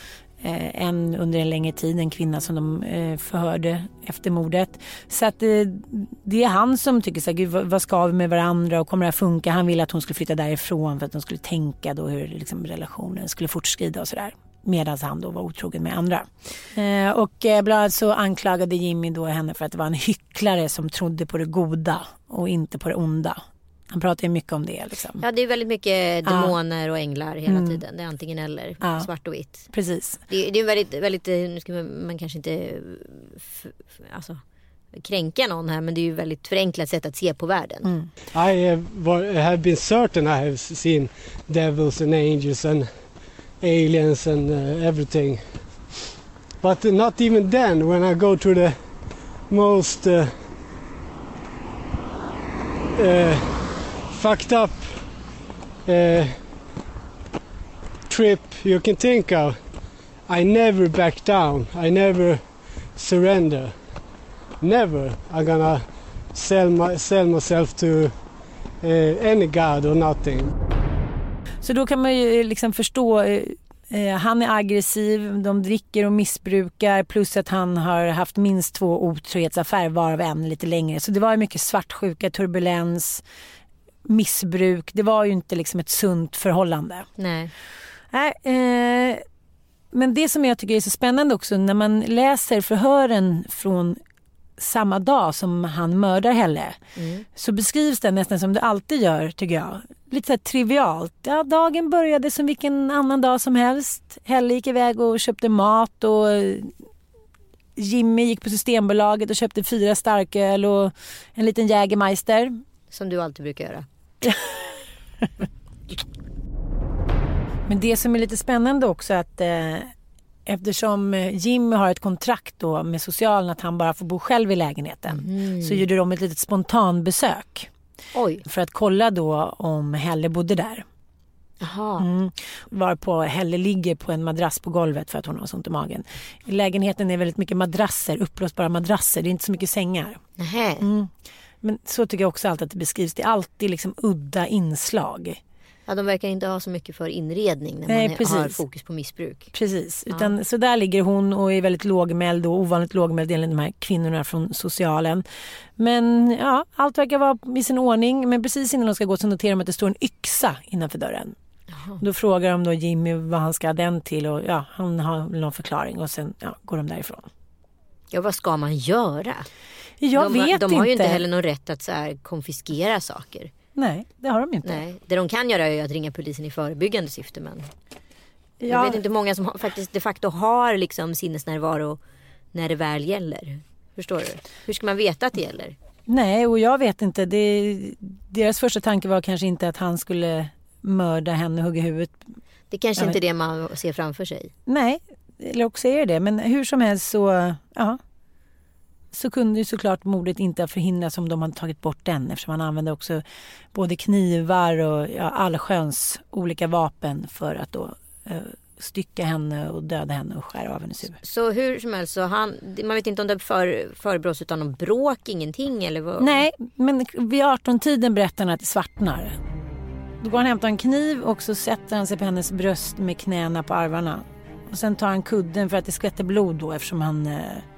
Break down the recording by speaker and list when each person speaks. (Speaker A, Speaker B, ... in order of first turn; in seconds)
Speaker A: 0.4-25.2, 26.3-26.6, 27.5-27.8, 28.8-29.1, 29.7-30.2, 37.9-38.1, 71.6-83.2, 84.0-87.1, 88.1-89.2, 89.9-94.0, 94.6-96.8, 97.3-106.7, 107.8-112.5, 114.2-114.6, 117.7-119.9, 120.5-127.7, 128.4-130.8, 132.0-140.2, 140.8-145.4, 147.9-148.6, 149.5-155.2, 155.8-161.4, 162.0-167.3, 170.0-171.2, 173.8-174.8, 178.6-179.0, 186.1-192.2, 194.7-198.0, 199.1-203.2, 203.7-211.2, 216.2-219.4, 220.2-227.7
Speaker B: 25.2-29.7, 30.3-34.4, 34.9-37.9, 87.2-87.5, 97.0-97.3, 112.9-113.9, 125.1-125.8, 128.1-128.4, 131.6-132.1, 140.4-140.9, 145.9-149.5, 150.1-150.3, 161.7-162.0, 168.1-169.5, 170.2-173.5, 174.6-177.7, 178.7-182.0, 182.5-185.8, 192.7-194.5, 211.2-216.4
Speaker C: 38.3-46.0, 46.6-50.5, 53.0-55.2, 55.9-56.6, 58.1-64.1, 64.6-70.5